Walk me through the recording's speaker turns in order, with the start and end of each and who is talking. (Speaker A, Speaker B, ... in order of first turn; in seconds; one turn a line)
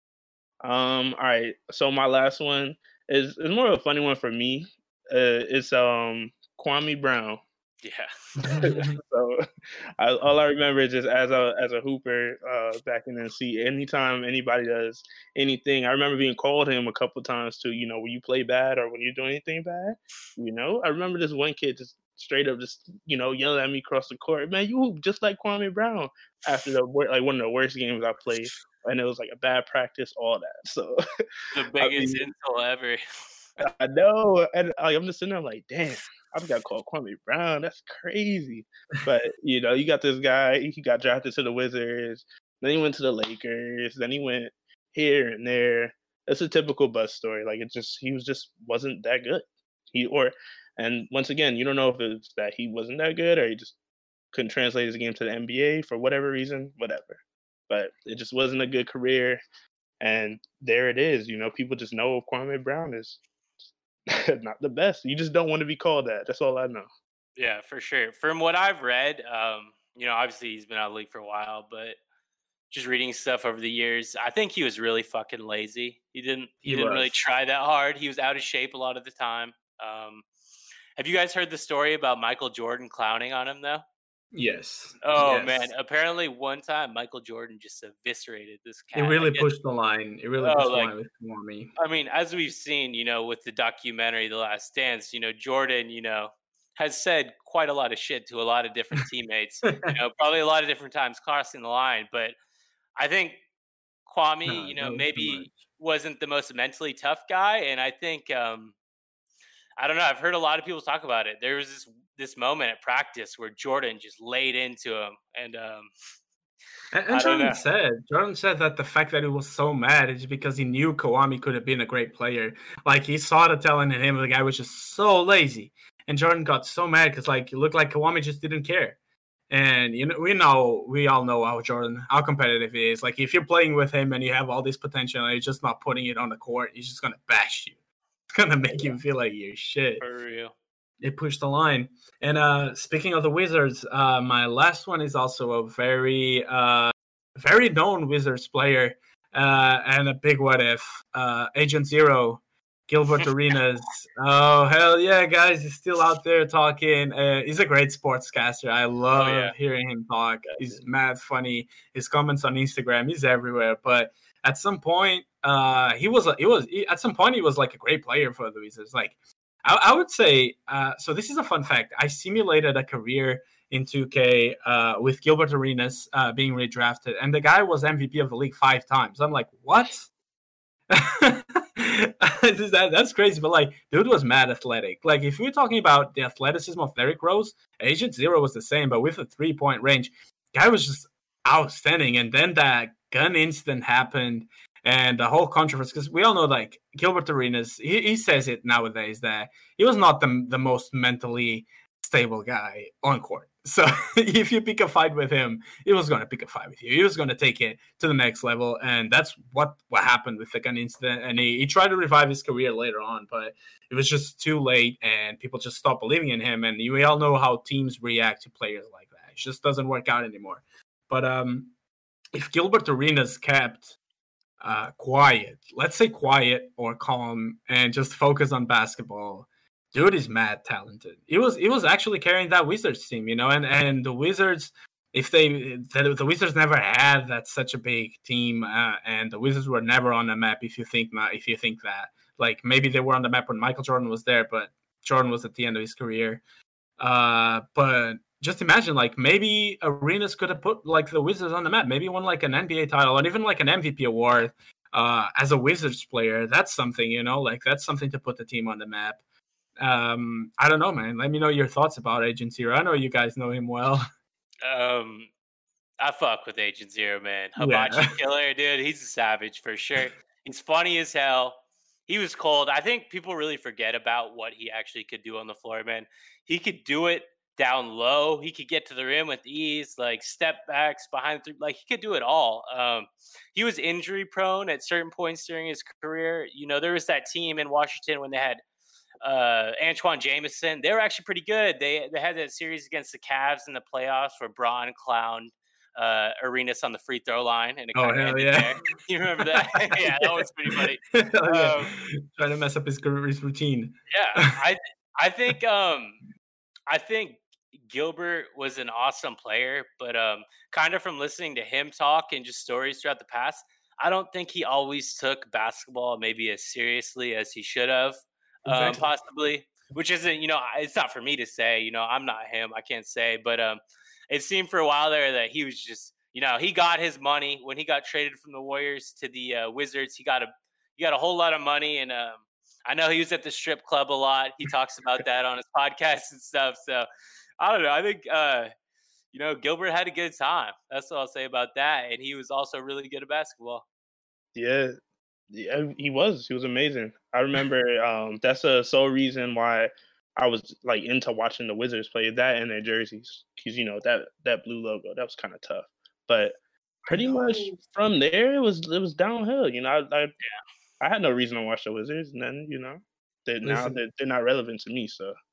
Speaker A: 0.6-7.4
Speaker B: 7.8-8.8
Speaker C: 8.4-9.0
Speaker A: 8.6-9.4
Speaker A: 10.0-31.0
Speaker B: 31.5-33.0
Speaker A: 31.8-32.3
Speaker A: 33.6-53.8
Speaker A: 54.3-59.4
Speaker A: 60.0-63.2
Speaker A: 64.1-66.9
Speaker B: 67.4-72.0
Speaker B: 72.7-80.2
Speaker C: 76.6-77.2
Speaker B: 81.0-83.8
Speaker C: 84.3-85.7
Speaker B: 85.0-89.5
Speaker C: 89.0-91.7
Speaker B: 90.4-90.9
Speaker B: 91.8-102.3
Speaker C: 99.7-99.9
Speaker B: 103.0-103.4
Speaker B: 104.1-108.8
Speaker C: 104.5-105.6
Speaker B: 109.8-115.9
Speaker C: 116.9-129.0
Speaker B: 117.1-117.6
Speaker C: 129.5-137.8
Speaker C: 138.3-140.0
Speaker B: 140.0-140.5
Speaker C: 141.0-180.1
Speaker B: 159.2-159.5
Speaker C: 180.9-221.7
Speaker C: 222.3-224.0
Speaker C: 224.6-246.4
Speaker C: 247.0-259.2
Speaker C: 259.8-264.0
Speaker B: 264.6-265.3
Speaker B: 266.0-288.6
Speaker C: 267.6-268.1
Speaker B: 289.2-301.9
Speaker C: 297.9-298.8
Speaker C: 299.5-304.6
Speaker B: 304.1-306.2
Speaker B: 306.9-337.1
Speaker C: 318.6-319.1
Speaker B: 337.6-338.7
Speaker B: 339.3-343.9
Speaker A: 344.6-345.0
Speaker A: 345.5-356.6
Speaker C: 357.1-357.8
Speaker A: 357.1-360.4
Speaker A: 361.0-365.4
Speaker C: 363.6-364.0